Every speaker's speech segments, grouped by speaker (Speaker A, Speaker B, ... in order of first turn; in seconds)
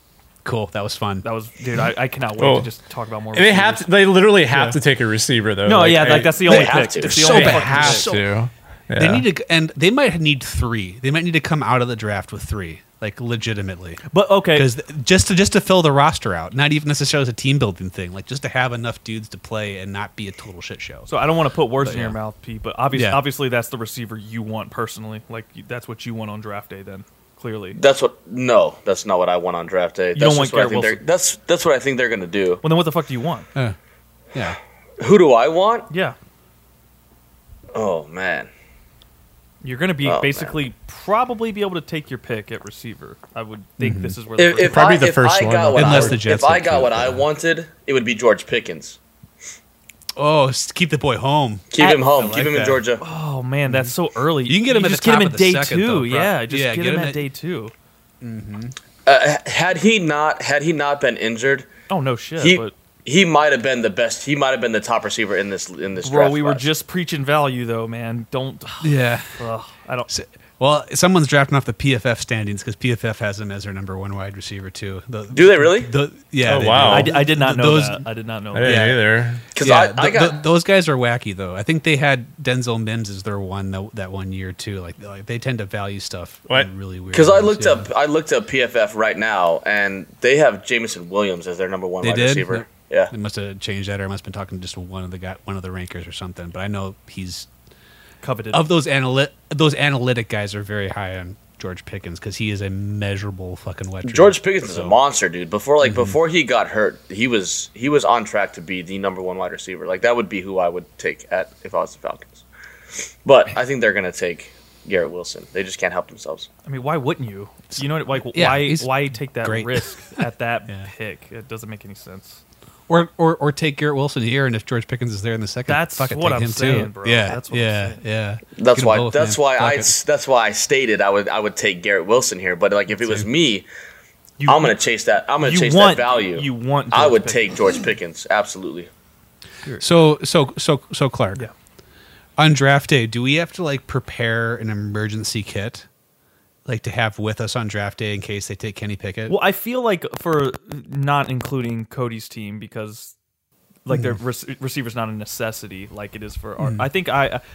Speaker A: 0.5-1.2, 4.5-4.8, 7.2-8.3, 9.0-21.1, 21.8-22.2, 23.0-23.2, 43.8-44.2, 45.7-47.2, 50.2-52.8, 54.5-57.2, 58.2-58.8, 68.8-69.4, 70.1-78.0, 78.6-79.0, 79.6-87.9, 92.0-97.5, 98.5-105.0, 105.8-106.2, 118.3-120.9, 122.9-129.9, 133.0-133.3, 139.8-141.4, 142.4-145.9, 146.7-149.3, 153.9-154.2, 156.6-156.8
Speaker B: 1.2-3.9, 5.6-8.1, 14.1-14.7, 21.1-27.8, 30.1-31.0, 32.6-33.5, 35.9-36.2, 39.6-44.9, 51.8-52.1, 53.0-57.7, 61.9-62.7, 66.0-70.1, 76.8-78.9, 98.2-98.7, 116.7-122.4, 125.7-128.0, 134.4-134.8, 135.4-137.4, 149.3-153.2, 153.8-157.4
Speaker C: 2.4-2.7, 3.3-9.2, 44.6-46.2, 76.5-77.2, 78.5-79.4
Speaker D: 6.4-7.3, 27.8-32.6, 35.0-35.9, 37.7-38.5, 40.0-40.6, 44.4-49.0, 51.7-53.0, 59.1-61.7, 62.4-66.6, 75.3-75.9, 79.5-80.4, 87.1-93.1, 104.0-112.4, 113.2-116.5, 128.6-133.7, 134.4-138.9